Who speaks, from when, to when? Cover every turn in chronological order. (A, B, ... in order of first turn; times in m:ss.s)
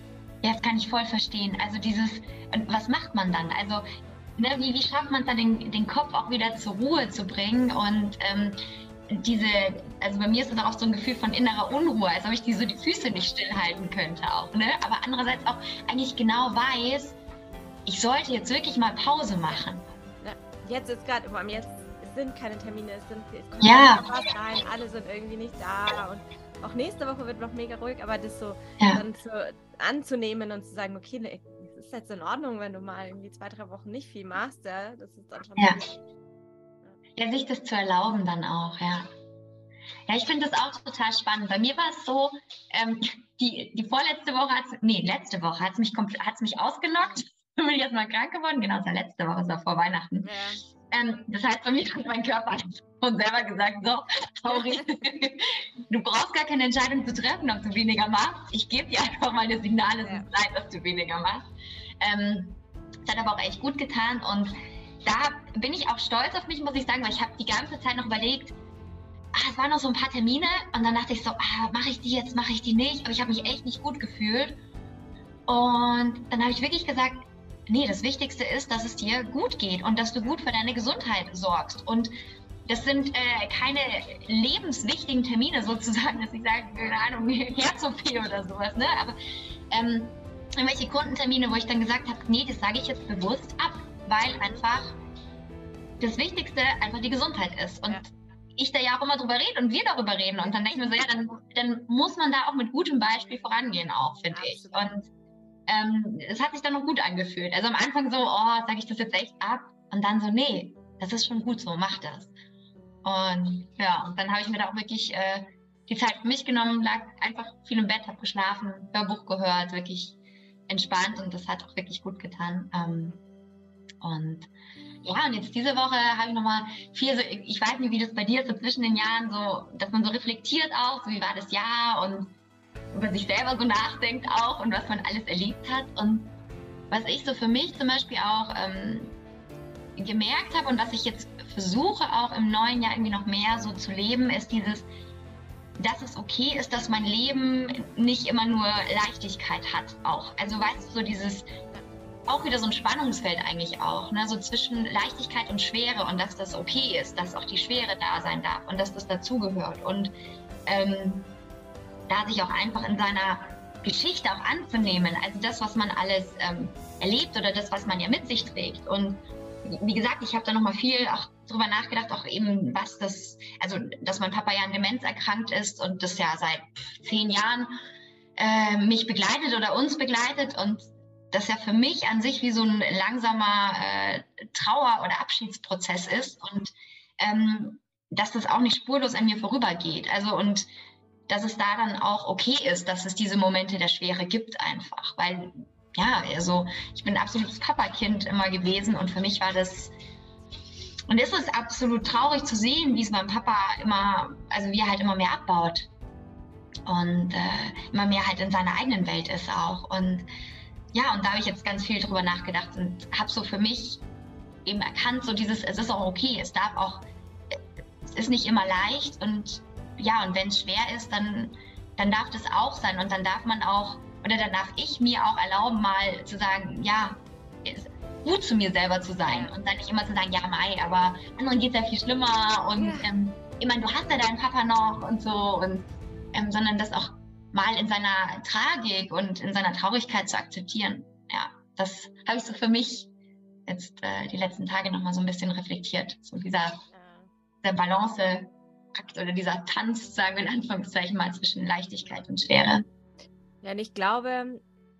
0:00.4-0:17.2 A
0:17.8-0:19.8 A
0:20.2-0:36.0 B
0:23.6-0:24.1 A
0:37.2-0:39.1 A
0:40.1-0:50.3 A
0:50.2-0:50.6 B
0:50.9-1:01.4 A
1:00.0-1:00.3 B
1:02.0-1:08.6 A
1:09.3-1:14.6 A
1:15.5-1:22.1 A
1:22.7-1:29.2 A
1:29.7-1:35.0 A
1:34.3-1:34.6 B
1:36.0-1:45.1 A
1:40.4-1:40.8 B
1:43.2-1:43.6 B
1:44.3-1:45.0 B
1:45.7-1:52.3 A
1:53.0-2:03.2 A
2:04.0-2:04.5 A
2:05.0-2:12.3 A
2:12.9-2:16.3 A
2:16.9-2:19.2 A
2:20.0-2:24.9 A
2:25.8-2:31.5 A
2:30.4-2:31.0 B
2:32.3-2:40.1 A
2:40.6-2:41.3 A
2:42.1-2:57.7 A
2:58.4-3:10.7 A
3:11.3-3:19.9 A
3:21.1-3:25.9 A
3:26.8-3:30.3 A
3:30.9-3:34.0 A
3:34.6-3:37.0 A
3:38.1-4:03.1 A
3:49.3-3:49.6 B
3:52.7-3:53.1 B
4:03.7-4:06.8 A
4:06.9-4:07.3 B
4:07.6-4:12.9 A
4:13.6-4:14.6 B